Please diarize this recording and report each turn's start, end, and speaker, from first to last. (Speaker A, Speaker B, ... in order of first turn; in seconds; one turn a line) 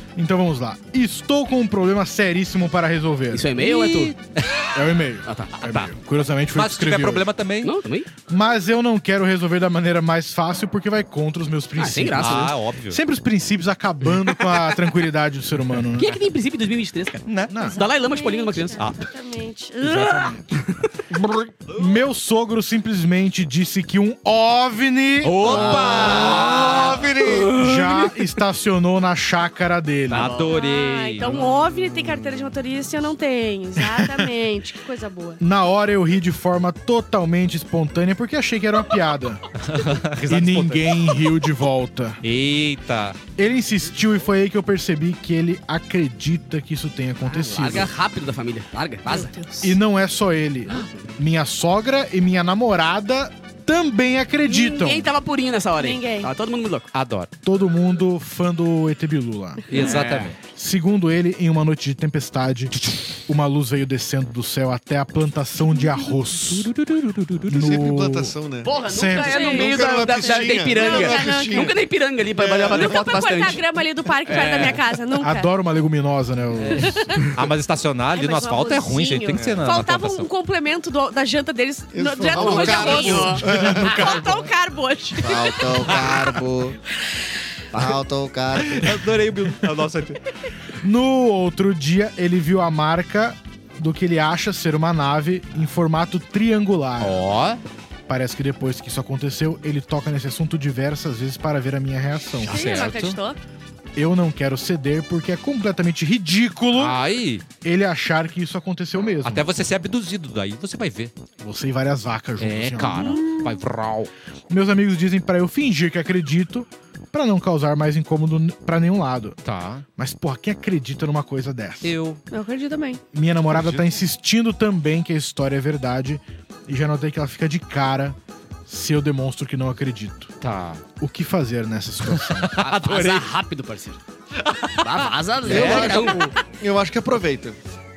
Speaker A: 0.2-3.5
Speaker B: 3.3-4.2
Speaker C: 3.6-4.7
Speaker A: 4.7-7.3
Speaker B: 5.3-5.6
Speaker C: 5.6-5.9
Speaker C: 6.5-7.8
Speaker B: 7.6-8.1
Speaker A: 8.3-16.2
Speaker B: 11.8-12.6
Speaker C: 12.2-13.0
Speaker B: 14.3-14.6
Speaker B: 16.0-18.8
Speaker C: 17.3-17.6
Speaker A: 17.5-17.8
Speaker D: 17.6-20.4
Speaker A: 19.8-20.5
Speaker B: 20.5-20.9
Speaker E: 21.1-21.5
Speaker C: 21.7-21.9
Speaker A: 21.7-25.9
Speaker B: 25.2-28.1
Speaker C: 25.2-27.4
Speaker E: 25.5-27.6
Speaker A: 27.5-30.4
Speaker B: 30.1-30.6
Speaker C: 30.1-31.4
Speaker D: 30.4-35.4
Speaker A: 33.8-34.3
Speaker A: 35.4-39.5
Speaker C: 39.6-41.1
Speaker A: 40.2-42.2
Speaker C: 42.2-43.2
Speaker A: 43.4-47.9
Speaker B: 47.3-49.3
Speaker D: 49.1-49.8
Speaker A: 49.6-55.1
Speaker B: 50.7-51.1
Speaker B: 54.5-56.9
Speaker D: 55.8-56.3
Speaker C: 56.9-57.3
Speaker A: 57.4-59.7
Speaker C: 59.7-60.4
Speaker B: 59.7-60.4
Speaker A: 60.4-68.3
Speaker C: 66.9-67.5
Speaker E: 67.5-71.8
Speaker B: 68.6-73.6
Speaker A: 68.9-69.6
Speaker D: 69.2-71.7
Speaker E: 72.4-73.1
Speaker D: 72.7-75.5
Speaker B: 74.2-74.8
Speaker A: 75.2-77.1
Speaker C: 76.6-80.3
Speaker D: 76.8-77.2
Speaker D: 78.1-86.3
Speaker E: 79.3-79.6
Speaker E: 81.9-84.3
Speaker B: 82.3-83.5
Speaker A: 83.4-84.4
Speaker E: 85.2-86.8
Speaker C: 85.7-86.2
Speaker E: 87.7-89.0
Speaker C: 88.6-90.2
Speaker A: 90.8-97.2
Speaker C: 97.0-97.6
Speaker A: 98.1-102.7
Speaker C: 102.4-103.2
Speaker D: 102.4-103.4
Speaker A: 104.0-107.0
Speaker C: 106.8-107.5
Speaker A: 107.5-109.5
Speaker C: 109.2-111.1
Speaker A: 111.4-113.2
Speaker C: 112.4-114.1
Speaker D: 112.9-113.6
Speaker A: 114.5-119.4
Speaker C: 119.4-119.8
Speaker A: 120.0-121.9
Speaker C: 121.8-122.2
Speaker D: 122.3-123.0
Speaker A: 123.1-130.3
Speaker C: 130.4-130.8
Speaker A: 131.0-132.6
Speaker C: 132.1-133.3
Speaker B: 132.6-134.0
Speaker C: 134.4-136.2
Speaker B: 134.8-136.3
Speaker E: 135.5-137.6
Speaker D: 135.8-136.2